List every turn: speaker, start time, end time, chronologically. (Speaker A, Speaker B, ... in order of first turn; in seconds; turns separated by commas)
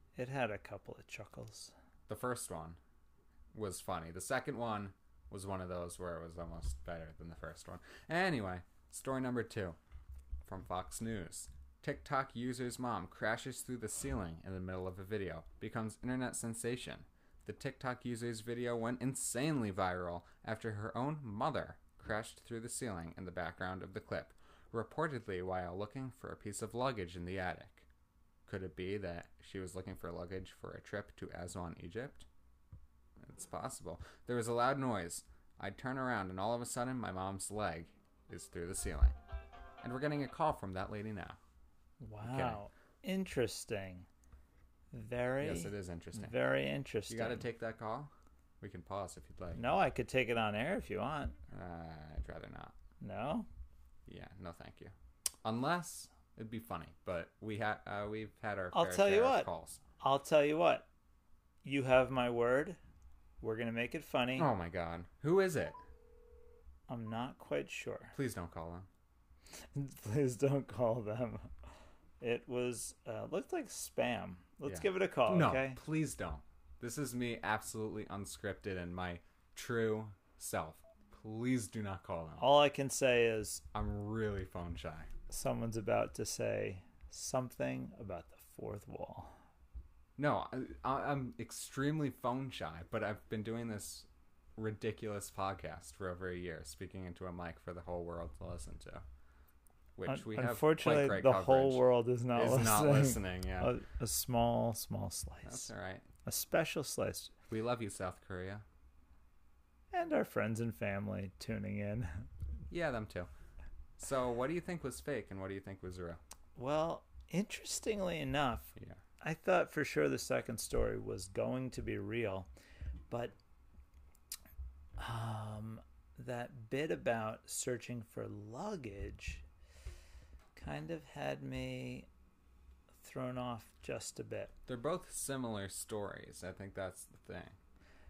Speaker A: 0.1-1.7, Speaker B: 2.1-2.8, Speaker B: 3.5-9.8, Speaker B: 10.4-27.9, Speaker B: 28.4-32.3, Speaker B: 33.2-39.1, Speaker B: 39.8-41.4, Speaker A: 42.0-44.1, Speaker B: 42.2-42.6, Speaker A: 44.9-47.4, Speaker B: 45.4-46.4, Speaker B: 47.1-49.6, Speaker A: 49.5-51.4, Speaker B: 51.5-52.8, Speaker A: 53.0-53.5, Speaker B: 54.0-59.8, Speaker A: 58.7-59.5, Speaker A: 60.0-60.9, Speaker A: 61.6-62.8, Speaker A: 63.4-64.5, Speaker B: 64.3-65.8, Speaker A: 66.9-68.1, Speaker B: 68.1-68.9, Speaker A: 69.8-71.5, Speaker A: 72.2-75.8, Speaker B: 74.7-82.5, Speaker A: 82.4-83.6, Speaker B: 83.7-85.1, Speaker A: 85.3-89.3, Speaker B: 90.2-99.0, Speaker B: 100.0-101.8, Speaker A: 100.1-105.7, Speaker B: 102.3-103.7, Speaker B: 105.4-106.1, Speaker A: 106.2-107.3, Speaker B: 107.5-108.6, Speaker A: 109.9-112.3, Speaker B: 112.7-113.3, Speaker B: 114.0-116.2, Speaker A: 116.5-122.5, Speaker A: 123.1-123.3, Speaker A: 125.0-129.4, Speaker A: 130.6-132.1, Speaker A: 133.0-134.5, Speaker B: 134.7-137.6